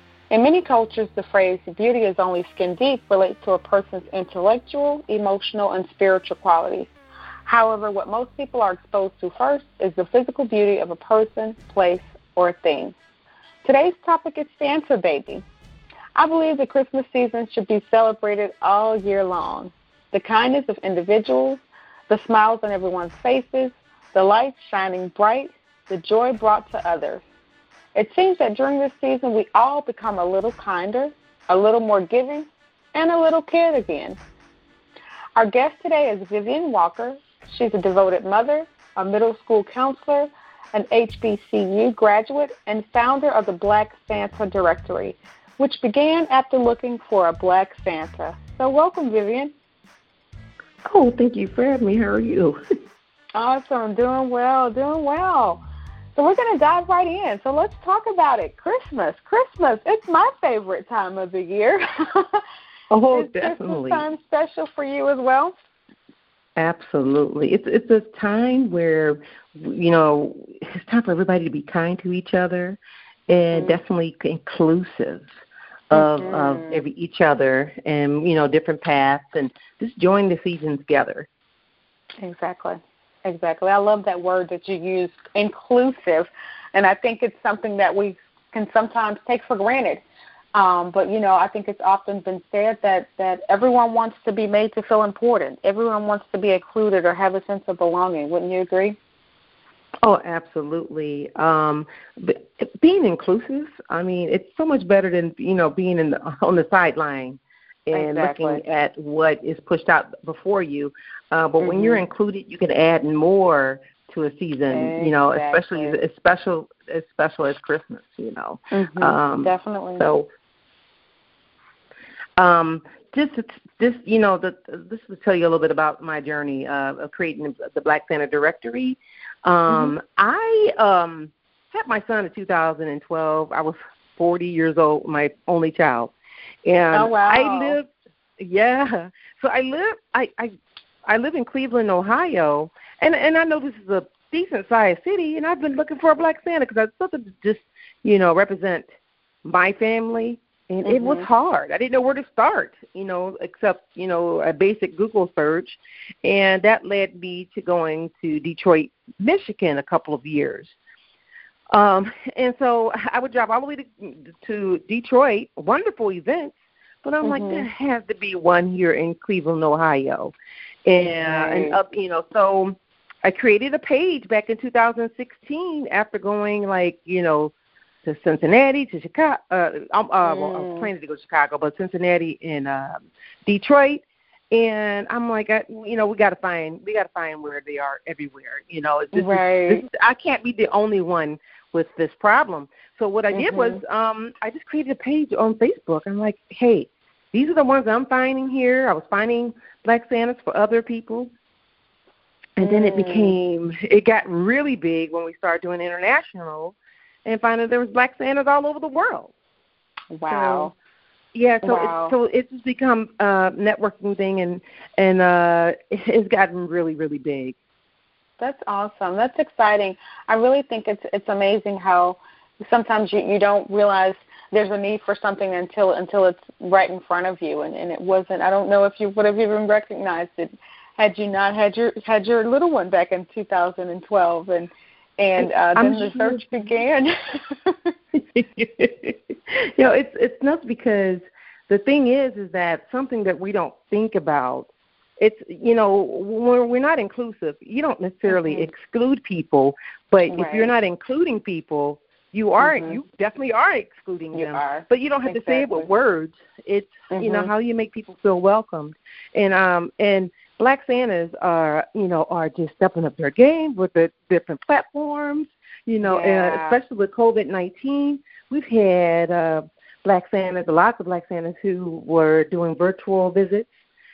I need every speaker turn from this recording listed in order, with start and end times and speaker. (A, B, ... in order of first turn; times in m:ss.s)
0:00.3-0:06.9 A
0:07.5-0:13.0 A
0:13.6-0:15.4 A
0:16.2-0:27.2 A
0:28.0-0:34.2 A
0:35.4-0:49.5 A
0:50.9-0:52.6 B
0:53.4-0:55.6 A
0:56.2-1:02.4 A
1:02.9-1:04.0 B
1:03.1-1:05.5 A
1:06.6-1:15.3 B
1:13.5-1:13.8 A
1:15.9-1:21.3 B
1:15.9-1:16.8 A
1:22.2-1:30.0 A
1:30.5-1:39.0 A
1:40.0-2:00.3 B
1:47.9-1:48.6 A
1:51.6-1:52.0 A
1:54.7-1:56.0 A
1:58.7-2:00.0 A
2:02.4-2:16.1 B
2:09.7-2:09.9 A
2:16.7-2:20.5 B
2:16.9-2:17.8 A
2:21.1-2:28.9 B
2:29.4-2:40.8 B
2:30.8-2:31.3 A
2:41.7-2:50.3 B
2:47.2-2:47.7 A
2:50.9-2:57.5 B
2:51.2-2:51.8 A
2:58.0-3:21.3 B
3:00.2-3:00.9 A
3:09.1-3:09.8 A
3:13.3-3:13.8 A
3:22.6-3:29.3 B
3:22.6-3:23.4 A
3:30.1-3:30.7 A
3:30.3-3:30.7 B
3:31.3-3:37.6 B
3:31.6-3:32.2 A
3:38.4-3:57.9 A
3:55.4-3:56.5 B
3:58.2-4:33.8 B
4:08.3-4:08.7 A
4:10.3-4:10.7 A
4:12.6-4:13.0 A
4:14.3-4:15.9 A
4:17.1-4:17.5 A
4:26.0-4:26.8 A